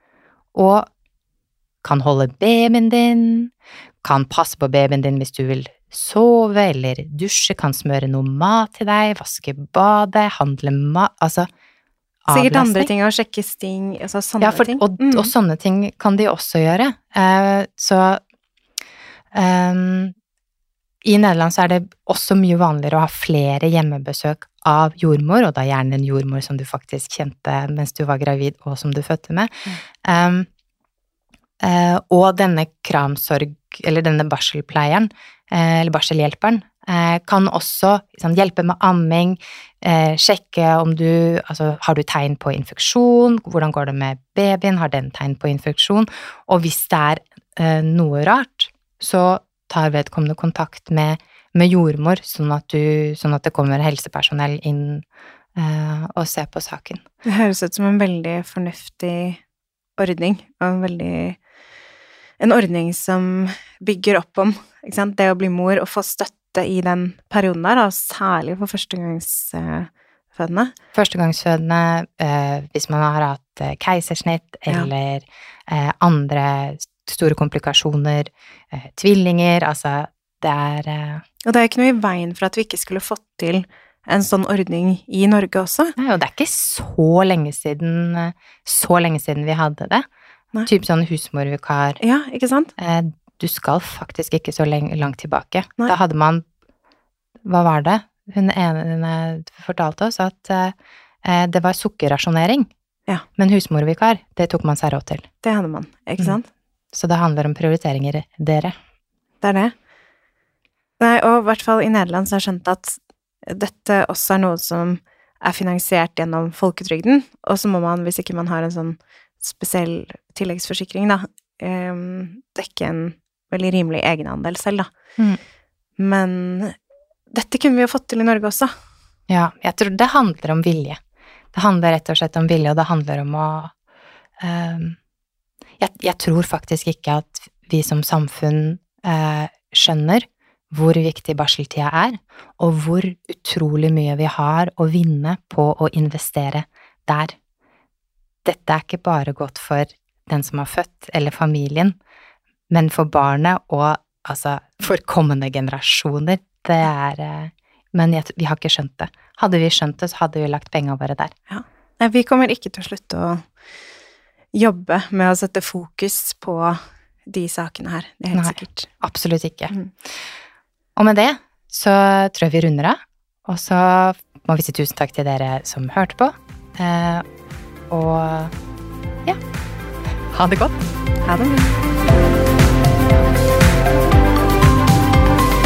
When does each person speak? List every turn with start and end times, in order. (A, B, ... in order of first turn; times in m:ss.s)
0:00.5-0:00.9 A
0:01.8-0:03.5 A
0:04.0-0:11.5 A
0:12.2-0:12.9 A
0:12.3-0:15.3 B
0:14.4-0:18.2 A
0:19.3-0:20.1 A
0:21.0-0:30.5 A
0:31.6-0:57.0 A
0:57.2-0:59.4 B
1:00.0-1:01.4 B
1:02.4-1:10.7 B
1:10.9-1:21.2 A
1:21.4-1:26.0 B
1:26.0-1:30.1 A
1:30.6-1:32.0 A
1:32.0-1:32.7 B
1:32.8-1:36.4 A
1:37.4-1:42.7 A
1:43.4-1:45.3 A
1:45.4-1:46.4 B
1:46.9-1:48.8 A
1:49.4-1:49.7 B
1:51.0-2:04.9 B
2:06.0-2:06.8 B
2:07.3-2:08.7 B
2:09.3-2:11.0 A
2:11.5-2:13.7 A
2:14.4-2:15.0 A
2:15.8-2:27.4 A
2:28.4-2:32.0 A
2:32.7-2:41.3 A
2:41.5-2:43.4 B
2:44.5-2:48.9 B
2:48.3-2:49.7 A
2:51.0-2:57.2 A
2:57.9-2:58.5 A
3:00.3-3:00.8 A
3:01.2-3:01.7 B